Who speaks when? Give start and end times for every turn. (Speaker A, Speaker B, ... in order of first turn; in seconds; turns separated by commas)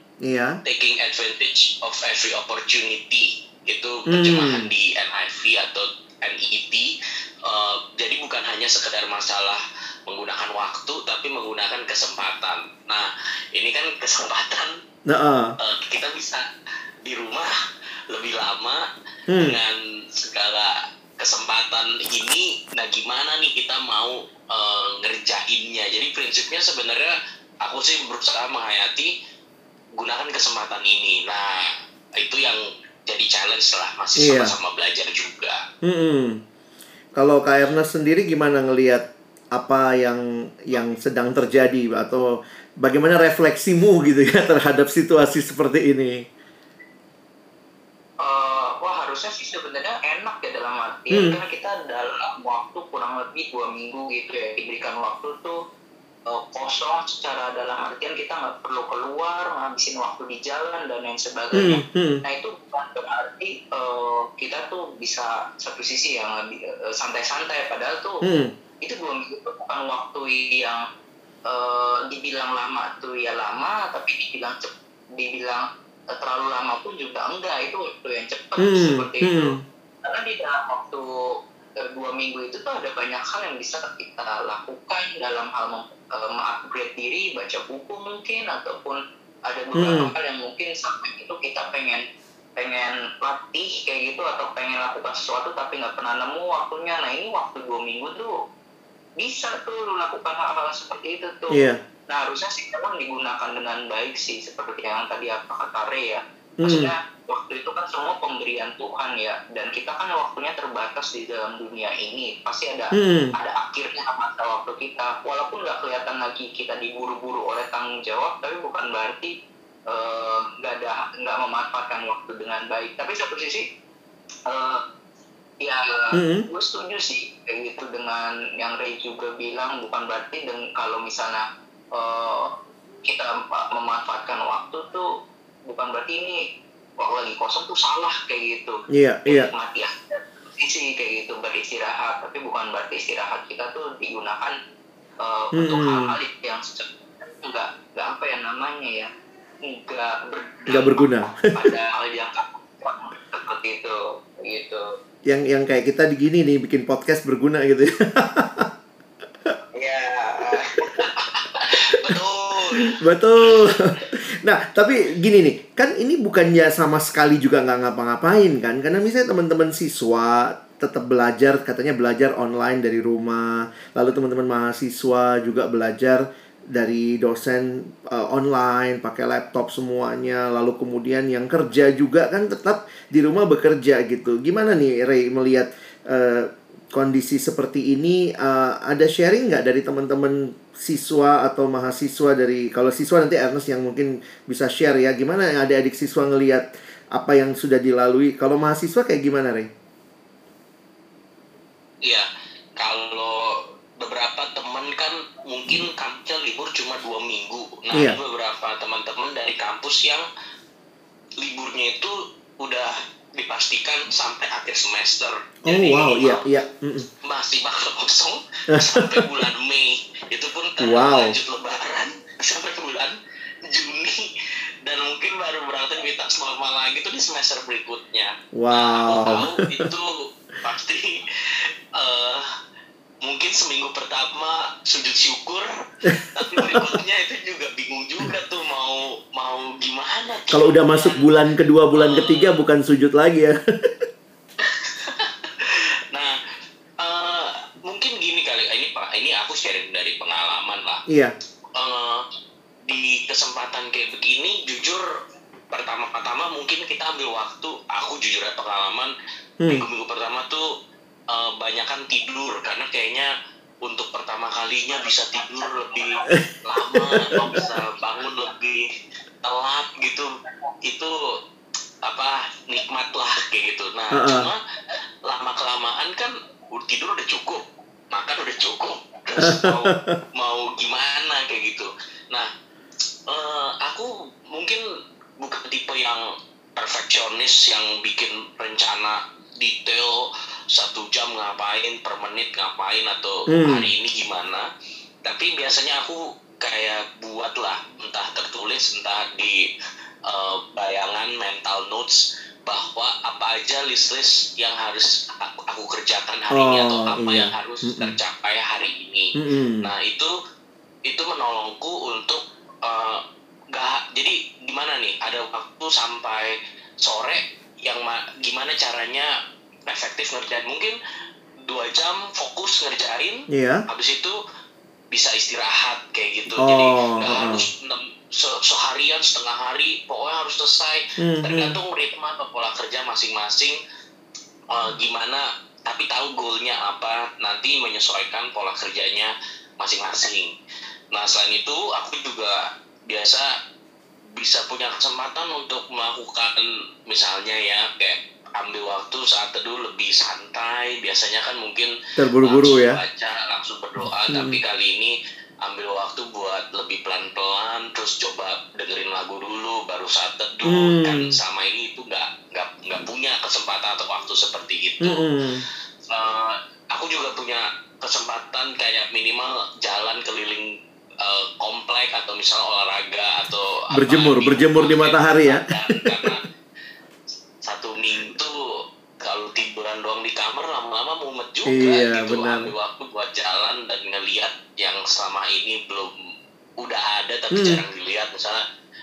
Speaker A: 0.2-0.6, Speaker B: 0.7-6.9, Speaker A: 4.1-4.7, Speaker B: 7.5-14.8, Speaker A: 15.1-15.6, Speaker B: 15.6-16.4, Speaker B: 17.0-17.5, Speaker B: 18.1-18.8, Speaker A: 19.3-19.6, Speaker B: 19.4-29.1, Speaker B: 30.0-31.7, Speaker B: 32.2-35.6, Speaker A: 34.2-34.5, Speaker A: 35.8-36.4, Speaker A: 37.2-42.3, Speaker A: 42.8-46.2, Speaker C: 48.2-55.6, Speaker C: 56.3-68.2, Speaker A: 61.5-62.2, Speaker A: 68.2-68.5, Speaker C: 68.8-70.8, Speaker C: 71.5-79.5, Speaker A: 78.6-79.6, Speaker C: 80.0-81.1, Speaker C: 81.8-92.0, Speaker A: 89.8-90.1, Speaker C: 92.6-98.3, Speaker C: 99.2-119.3, Speaker A: 101.5-101.8, Speaker A: 106.6-106.9, Speaker A: 113.0-113.3, Speaker C: 119.9-123.7, Speaker C: 124.5-124.8, Speaker C: 125.6-131.4, Speaker A: 126.1-126.5, Speaker C: 131.9-135.1, Speaker C: 135.7-136.4, Speaker C: 137.0-144.6, Speaker A: 138.9-139.5, Speaker C: 145.2-149.1, Speaker A: 145.6-146.2, Speaker C: 149.7-154.9, Speaker A: 150.7-151.7, Speaker A: 155.3-158.7, Speaker C: 159.8-161.1, Speaker B: 161.1-162.9, Speaker A: 162.8-199.7, Speaker B: 202.1-210.2, Speaker B: 211.4-216.5, Speaker A: 215.7-217.1, Speaker B: 217.2-223.2, Speaker A: 218.7-219.4, Speaker A: 220.8-221.3, Speaker B: 223.7-224.2, Speaker B: 224.8-230.1, Speaker A: 228.6-229.9, Speaker B: 230.6-231.2, Speaker B: 232.0-232.4, Speaker B: 233.2-241.3, Speaker A: 236.1-236.9, Speaker A: 240.5-244.0, Speaker B: 241.9-242.5, Speaker B: 244.6-246.4, Speaker B: 247.0-251.0, Speaker A: 251.1-251.3, Speaker B: 251.8-252.2, Speaker B: 252.8-255.0, Speaker B: 255.7-259.1, Speaker B: 259.7-260.7, Speaker B: 261.3-263.3, Speaker B: 263.8-268.9, Speaker A: 266.4-267.6, Speaker B: 269.4-270.3, Speaker B: 270.9-271.1, Speaker B: 272.1-274.6, Speaker A: 274.1-274.5, Speaker B: 275.3-282.5, Speaker A: 279.4-280.2, Speaker B: 283.3-284.8, Speaker B: 285.4-286.2, Speaker B: 286.8-294.6, Speaker A: 293.5-293.9, Speaker B: 295.2-299.7, Speaker B: 300.3-310.3, Speaker A: 306.5-308.2, Speaker A: 309.4-309.9, Speaker B: 311.1-313.2, Speaker B: 313.7-319.3, Speaker B: 319.9-321.0, Speaker B: 321.7-324.4, Speaker A: 323.5-323.8, Speaker B: 325.1-333.8, Speaker A: 326.6-327.7, Speaker A: 331.2-331.8, Speaker B: 334.7-340.5, Speaker B: 341.1-343.5, Speaker B: 344.3-376.5, Speaker A: 352.2-353.0, Speaker A: 354.3-354.6, Speaker A: 360.7-361.4, Speaker A: 365.0-365.7, Speaker A: 373.9-376.4, Speaker B: 377.6-378.6, Speaker B: 379.2-386.1, Speaker A: 381.7-382.7, Speaker B: 386.8-388.6, Speaker A: 387.5-387.8